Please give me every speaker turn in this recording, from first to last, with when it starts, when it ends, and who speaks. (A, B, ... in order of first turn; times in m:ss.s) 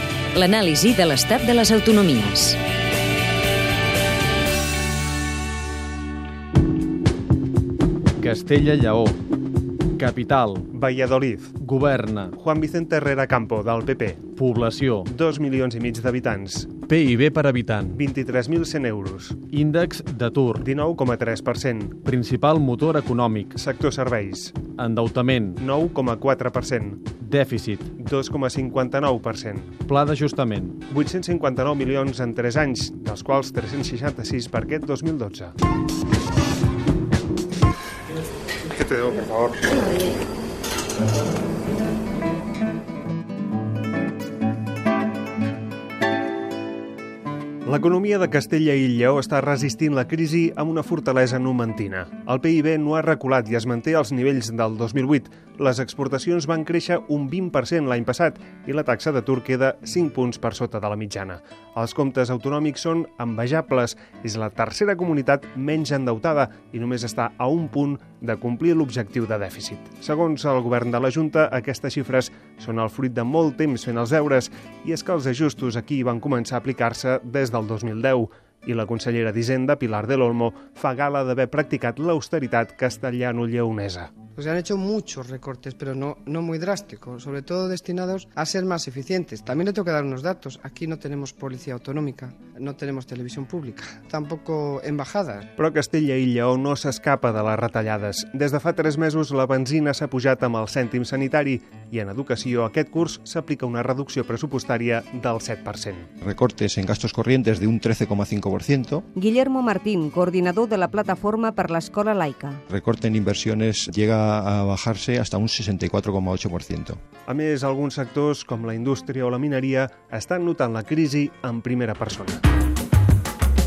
0:00.3-0:02.6 A
0:08.2-0:09.2 B
0:10.0-0:10.6 B
0:10.7-0:11.5 C
0:11.6-0:12.3 B
0:12.4-0:14.3 C
0:14.3-0:15.1 B
0:15.1-0:16.8 C
0:16.8-0:18.0 B
0:18.0-0:19.4 C
0:19.5-0:20.7 B
0:20.6-0:22.0 C
0:22.0-0:23.5 B
0:23.6-0:24.6 C
0:24.8-0:25.6 B
0:25.6-0:27.1 C
0:27.2-0:27.9 B
0:28.0-0:29.8 C
0:29.9-0:30.8 B
0:30.9-0:35.5 C
0:38.7-0:39.8 C
0:47.7-1:24.1 C
1:24.4-1:35.5 D
1:35.6-1:46.1 C
1:46.2-1:49.0 E
1:49.2-1:52.6 F
1:52.7-1:57.0 E
1:57.3-2:02.4 C